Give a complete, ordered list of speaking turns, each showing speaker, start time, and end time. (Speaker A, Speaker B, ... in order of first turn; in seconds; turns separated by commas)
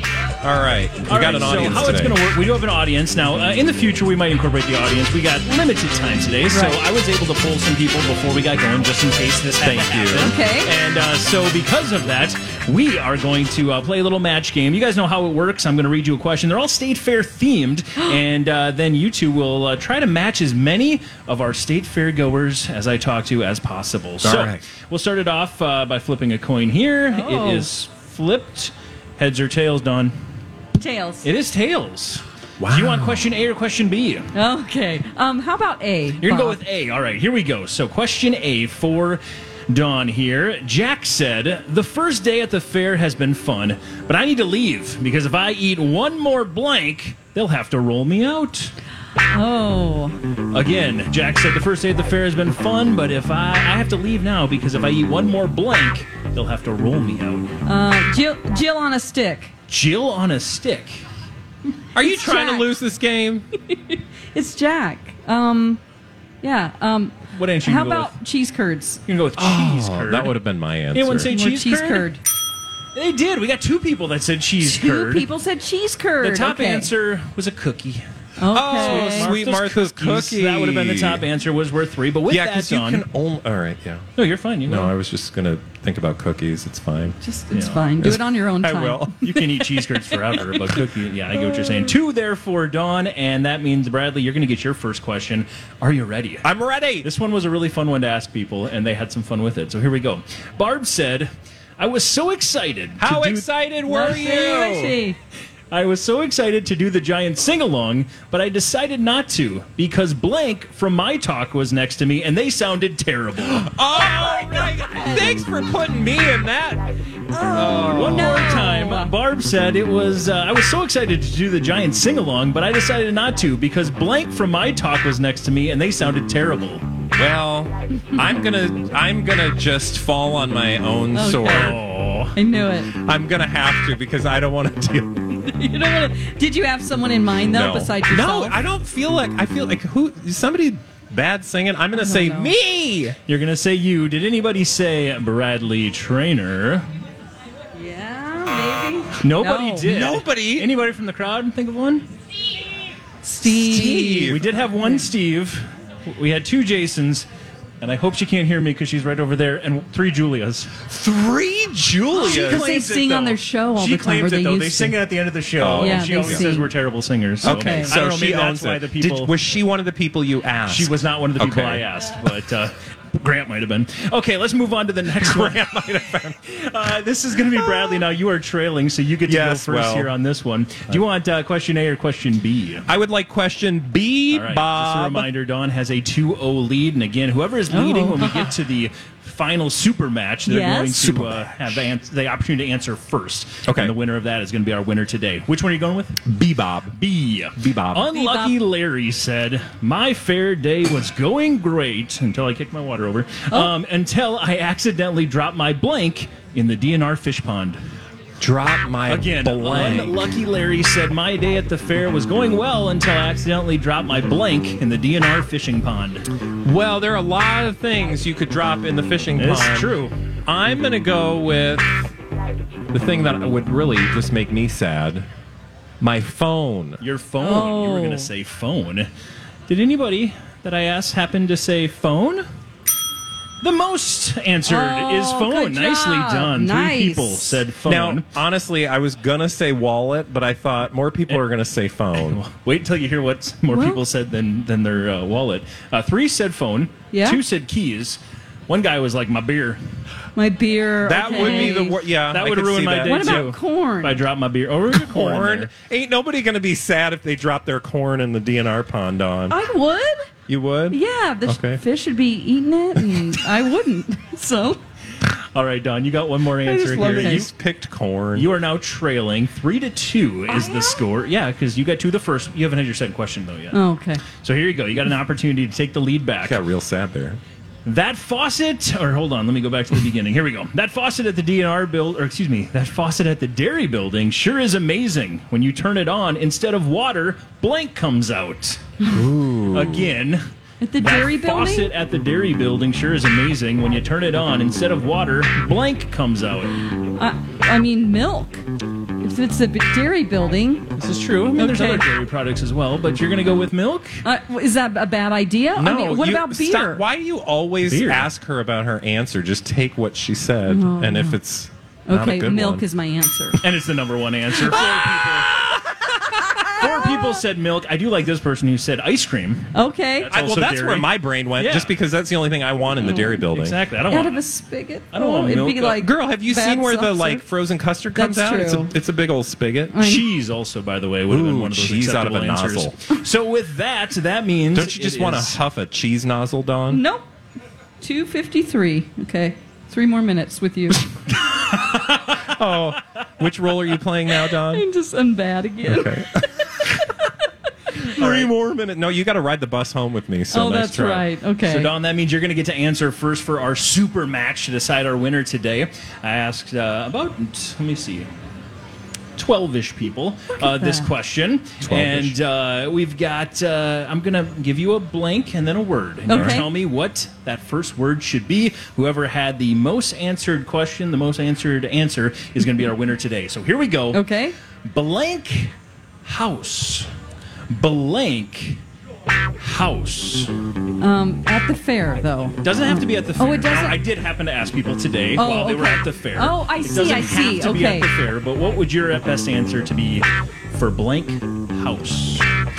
Speaker A: 0.4-2.2, Speaker B: 1.1-30.1, Speaker C: 6.5-6.8, Speaker A: 9.6-10.3, Speaker C: 10.2-10.7, Speaker A: 24.2-24.6, Speaker C: 27.1-27.7, Speaker C: 30.8-31.3, Speaker B: 31.2-34.3, Speaker A: 32.6-33.3, Speaker C: 34.3-36.6, Speaker B: 36.2-48.7, Speaker C: 49.3-50.2, Speaker B: 50.5-57.5, Speaker C: 57.6-59.5, Speaker B: 59.7-61.0, Speaker A: 61.9-63.5, Speaker C: 62.0-62.7, Speaker C: 63.7-65.8, Speaker C: 66.4-69.0, Speaker B: 67.3-68.1, Speaker B: 69.1-70.3, Speaker A: 69.4-71.3, Speaker B: 70.9-72.1, Speaker C: 71.3-72.2, Speaker B: 72.9-75.2, Speaker C: 74.6-76.9, Speaker B: 76.2-83.0, Speaker C: 78.4-79.3, Speaker A: 78.5-81.2, Speaker A: 82.3-84.1, Speaker B: 84.2-84.9, Speaker A: 84.7-87.2, Speaker C: 87.2-89.5, Speaker B: 87.5-87.8, Speaker A: 88.0-89.4, Speaker B: 89.2-96.5, Speaker C: 90.1-90.4, Speaker A: 91.4-91.9, Speaker A: 96.4-97.1, Speaker B: 97.0-103.5, Speaker A: 103.0-105.0, Speaker C: 103.9-105.2, Speaker B: 105.7-113.7, Speaker A: 113.4-117.0, Speaker C: 113.9-115.4, Speaker C: 117.3-119.1, Speaker A: 117.5-118.5, Speaker B: 117.8-126.8, Speaker A: 127.1-131.8, Speaker C: 131.1-131.8, Speaker B: 131.5-132.4, Speaker C: 132.3-132.9, Speaker A: 133.0-135.4, Speaker C: 135.4-138.5, Speaker A: 137.4-143.2, Speaker C: 141.9-142.5, Speaker B: 143.3-146.9, Speaker C: 147.7-149.9, Speaker B: 149.2-152.1, Speaker A: 149.8-150.7, Speaker C: 153.2-155.0, Speaker A: 153.3-154.4, Speaker B: 154.3-157.3, Speaker B: 157.8-160.8, Speaker A: 160.8-162.7, Speaker C: 162.1-165.0, Speaker B: 162.1-169.3, Speaker A: 165.6-166.4, Speaker C: 165.8-166.7, Speaker C: 167.4-167.9, Speaker A: 167.4-171.8, Speaker B: 170.7-175.7, Speaker A: 175.2-176.4, Speaker B: 176.4-182.8, Speaker A: 179.3-180.1, Speaker A: 182.9-185.3, Speaker B: 184.3-196.3, Speaker C: 187.7-188.5, Speaker C: 190.4-191.1, Speaker A: 190.9-191.7, Speaker A: 193.7-193.9, Speaker A: 196.2-197.0, Speaker B: 196.9-207.8, Speaker A: 197.6-198.1, Speaker C: 198.1-198.6, Speaker A: 208.4-210.2, Speaker B: 209.1-216.2, Speaker A: 216.6-219.9, Speaker B: 219.3-220.1, Speaker A: 220.4-222.1, Speaker A: 222.9-225.3, Speaker A: 226.0-227.0, Speaker B: 227.0-229.1, Speaker C: 227.4-228.3, Speaker B: 229.7-232.4, Speaker B: 233.6-238.3, Speaker C: 234.7-237.6, Speaker A: 237.8-242.4, Speaker B: 242.1-248.2, Speaker C: 243.7-244.0, Speaker C: 247.1-247.4, Speaker B: 248.7-249.8, Speaker C: 250.3-251.9, Speaker A: 251.0-253.5, Speaker B: 251.3-255.7, Speaker C: 253.0-254.2, Speaker A: 254.9-259.6, Speaker C: 259.5-260.3, Speaker A: 260.5-261.8, Speaker C: 260.9-264.8, Speaker A: 263.0-263.4, Speaker B: 265.2-267.5, Speaker A: 266.6-268.5, Speaker C: 267.0-267.5, Speaker B: 268.4-276.6, Speaker C: 270.5-271.0, Speaker C: 273.7-274.2, Speaker A: 276.4-277.4, Speaker B: 277.8-288.8, Speaker A: 289.1-290.1, Speaker B: 289.7-290.4, Speaker C: 290.8-291.9, Speaker B: 291.0-296.7, Speaker C: 296.9-298.6, Speaker C: 299.2-300.9, Speaker B: 300.9-304.2, Speaker C: 301.6-302.0, Speaker C: 304.2-307.0, Speaker A: 305.8-312.8, Speaker B: 307.9-308.3, Speaker C: 310.7-311.4, Speaker C: 312.1-313.6, Speaker B: 313.6-315.8, Speaker C: 314.5-315.2, Speaker A: 314.7-315.4, Speaker C: 316.1-317.4, Speaker B: 316.8-321.9, Speaker C: 319.7-320.3, Speaker A: 320.3-323.8, Speaker C: 323.0-323.4, Speaker B: 323.5-324.4, Speaker C: 324.1-327.4, Speaker B: 325.1-326.0, Speaker A: 326.0-330.0, Speaker C: 328.1-328.9, Speaker C: 329.9-330.2, Speaker B: 330.0-335.6, Speaker A: 331.3-333.0, Speaker A: 334.7-337.0, Speaker C: 336.9-337.3, Speaker C: 338.0-341.1, Speaker B: 341.9-342.4, Speaker A: 342.4-344.8, Speaker C: 344.5-346.2, Speaker A: 345.9-347.0, Speaker C: 346.8-347.3, Speaker A: 348.1-351.2, Speaker B: 348.2-348.5, Speaker C: 350.5-351.9, Speaker B: 351.6-358.3, Speaker B: 359.4-374.2, Speaker C: 360.5-361.1, Speaker A: 361.8-362.4, Speaker C: 366.3-366.7, Speaker A: 366.3-366.6, Speaker C: 374.1-374.5, Speaker B: 374.9-375.7, Speaker B: 376.2-377.1, Speaker B: 377.7-378.8, Speaker B: 379.6-380.5, Speaker C: 381.0-384.0, Speaker B: 382.6-392.4, Speaker C: 385.4-388.1